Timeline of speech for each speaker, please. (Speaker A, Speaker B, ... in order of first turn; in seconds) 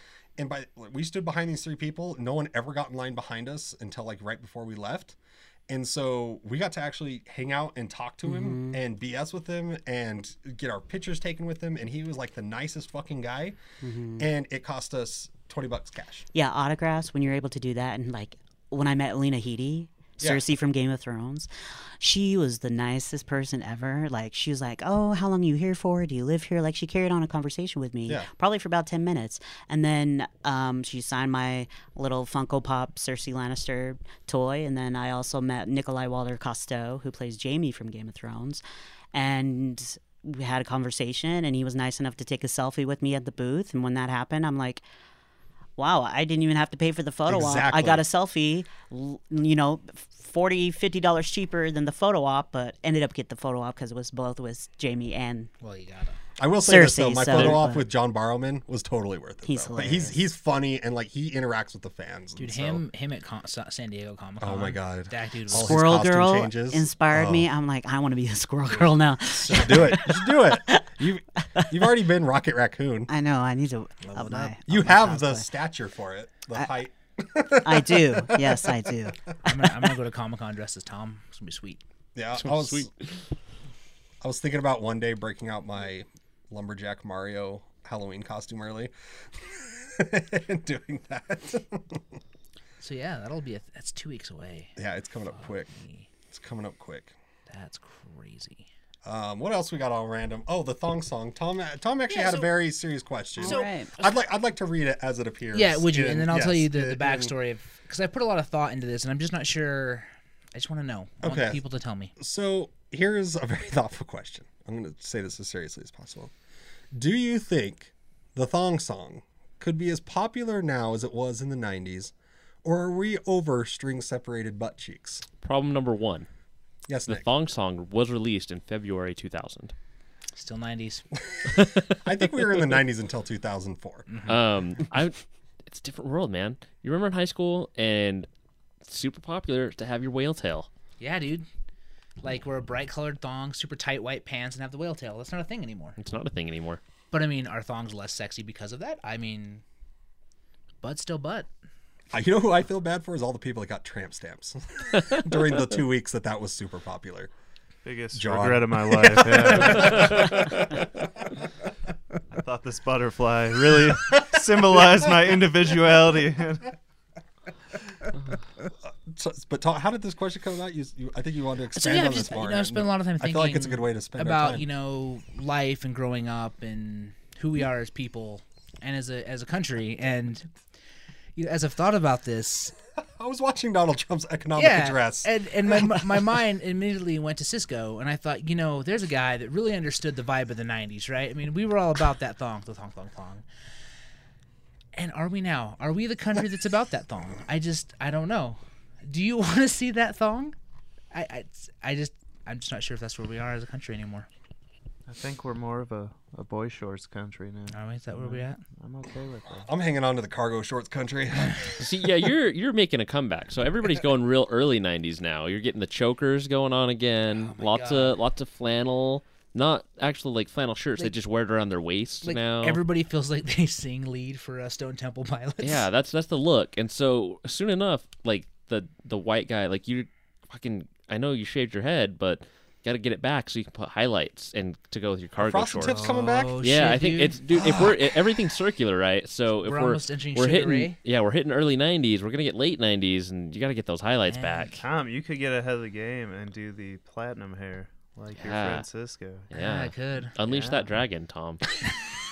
Speaker A: 0.4-5.2, 5.7-13.6, 14.2-16.3, 47.3-48.0, 56.4-62.8, 64.4-67.5, 69.5-73.1, 74.7-78.9, 82.1-82.9, 84.2-92.2, 94.8-95.7, 96.3-97.1, 99.0-107.3, 111.2-111.6, 112.2-116.3, 116.9-122.1, 122.6-125.2, 126.9-127.2, 131.9-134.1, 152.1-157.3, 158.1-160.5, 168.8-174.7, 183.0-186.2, 209.5-211.6, 235.4-236.5, 237.5-237.9
Speaker B: 8.2-8.8, 13.8-14.2, 16.3-38.6, 39.1-44.8, 45.8-55.5, 56.6-57.8, 59.4-60.1, 65.5-71.8, 73.1-75.5, 77.6-79.2, 103.4-103.9
Speaker C: 55.6-56.2, 62.4-65.9, 68.8-70.0, 74.0-74.5, 79.4-81.8, 92.8-94.7, 95.3-96.1, 97.5-98.7, 102.1-102.5, 103.4-104.1, 105.5-112.1, 130.3-131.0, 134.1-134.4, 141.0-141.4, 142.2-145.9, 147.1-149.6, 150.8-151.5, 171.7-180.5, 181.3-182.7, 184.6-193.4, 194.9-200.5, 201.1-204.3, 207.7-208.6, 217.3-218.2, 222.2-225.8, 236.0-237.4, 239.6-241.0, 244.3-244.8, 249.5-250.4
Speaker D: 82.3-83.1, 125.4-126.3, 127.1-129.7, 131.5-131.9, 134.3-138.3, 138.8-140.7, 146.0-146.8, 160.0-160.3, 211.8-222.8, 225.6-236.1, 236.6-244.8, 248.4-248.8, 249.5-251.7
Speaker E: 157.8-160.5, 162.3-166.7, 205.1-209.7, 235.9-236.2, 244.8-249.5, 250.5-250.8